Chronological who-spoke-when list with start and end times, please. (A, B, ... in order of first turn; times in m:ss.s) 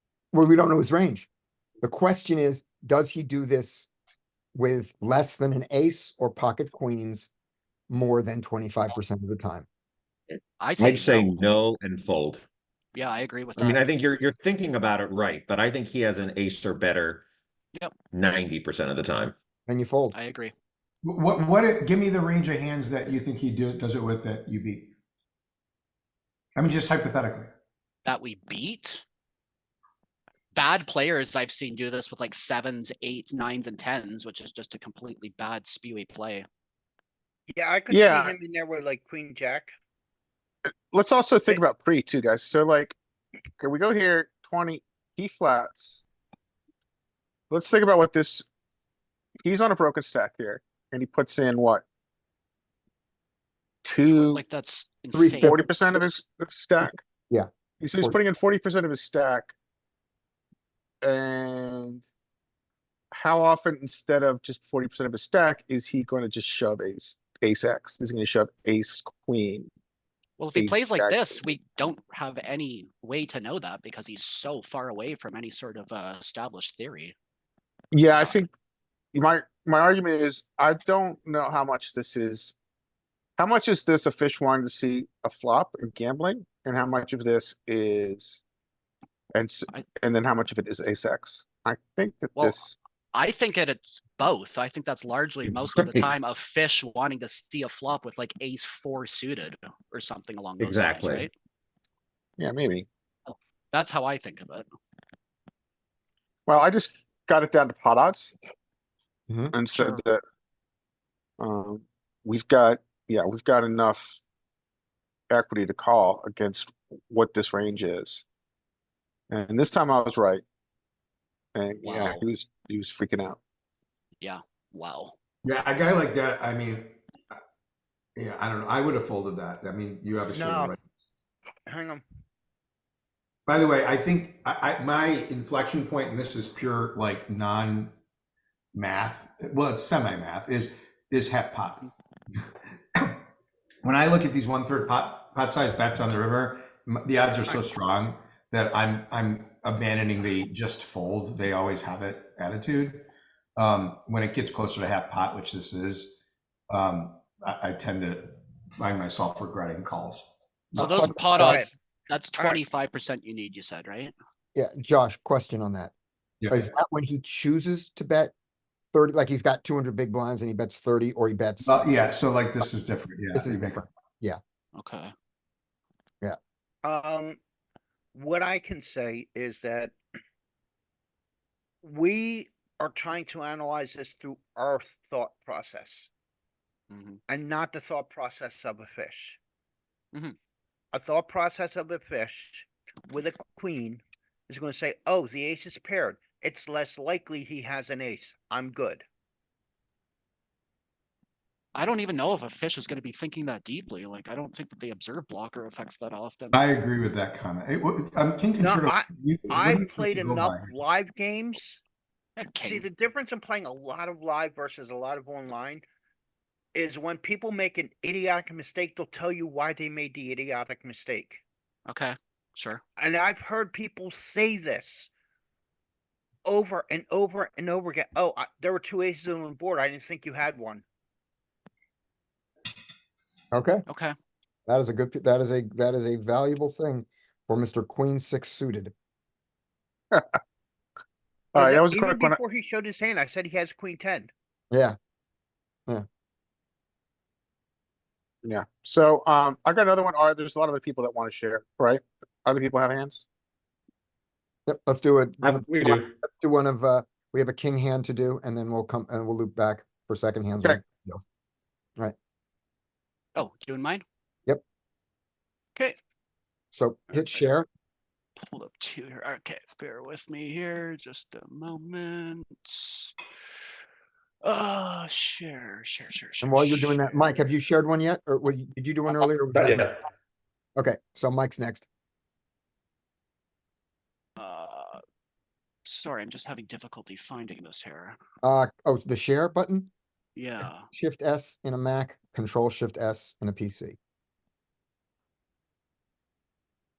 0:00.3-0:01.3 A
0:01.8-0:03.9 A
0:04.5-0:07.3 A
0:07.9-0:09.7 A
0:10.6-0:11.4 B
0:10.8-0:12.4 C
0:12.9-0:13.8 B
0:13.6-0:17.2 C
0:18.1-0:19.3 C
0:19.7-0:20.1 A
0:20.1-0:20.5 B
0:21.0-0:24.9 D
0:26.6-0:27.5 D
0:28.0-0:29.0 B
0:30.5-0:36.4 B
0:37.5-0:39.7 E
0:37.9-0:38.3 F
0:40.9-0:43.0 F
0:43.6-0:46.0 F
0:47.5-0:48.4 F
0:49.4-0:51.8 F
0:53.8-0:54.4 F
0:54.1-0:55.7 B
0:55.1-0:55.6 A
0:55.4-0:57.0 F
0:57.8-0:59.5 F
1:01.0-1:02.0 F
1:03.1-1:09.7 F
1:10.4-1:17.2 B
1:10.6-1:11.4 F
1:17.9-1:18.5 F
1:18.1-1:18.4 B
1:19.1-1:22.6 F
1:23.4-1:28.4 F
1:29.3-1:32.7 F
1:33.1-1:41.3 B
1:35.8-1:36.1 C
1:40.6-1:41.3 C
1:42.4-1:42.8 F
1:43.3-1:44.6 B
1:46.5-1:48.3 F
1:49.3-1:49.5 A
1:49.5-1:50.2 F
1:49.7-1:50.0 B
1:51.4-1:54.2 F
1:55.3-1:58.2 F
1:59.3-2:00.4 F
2:01.5-2:03.4 F
2:01.8-2:02.2 B
2:04.2-2:05.1 B
2:05.4-2:07.3 D
2:08.2-2:10.8 D
2:10.3-2:10.7 E
2:11.7-2:12.0 E
2:13.5-2:18.0 D
2:18.7-2:21.9 D
2:23.8-2:33.0 D
2:33.6-2:36.2 D
2:36.7-2:41.1 D
2:40.8-2:44.1 B
2:41.1-2:41.7 E
2:44.5-2:45.9 A
2:46.5-2:48.3 A
2:48.9-2:51.8 A
2:51.6-2:53.8 D
2:53.3-2:54.4 A
2:54.8-2:55.1 B
2:56.8-2:57.4 E
2:58.1-3:00.0 E
3:01.8-3:06.1 E
3:06.9-3:07.2 B
3:07.3-3:09.4 E
3:10.9-3:19.0 E
3:21.7-3:26.6 B
3:26.5-3:30.6 D
3:28.6-3:31.8 E
3:32.4-3:32.8 B
3:32.6-3:35.8 E
3:36.7-3:41.4 E
3:41.9-3:42.8 B
3:43.0-3:45.1 E
3:46.4-3:50.8 E
3:53.5-3:53.8 A
3:54.7-3:58.9 A
4:00.1-4:00.4 F
4:01.5-4:02.4 F
4:01.6-4:04.3 E
4:04.7-4:05.0 A
4:08.4-4:13.2 F
4:14.7-4:21.2 A
4:15.6-4:16.0 C
4:23.3-4:24.0 B
4:26.7-4:27.7 A
4:27.1-4:27.4 B
4:28.4-4:33.1 B
4:34.4-4:37.3 B
4:36.4-4:39.9 A
4:40.8-4:41.9 A
4:44.4-4:45.0 B
4:45.8-4:48.2 B
4:48.4-4:49.9 A
4:50.4-4:50.9 B
4:50.8-4:54.0 A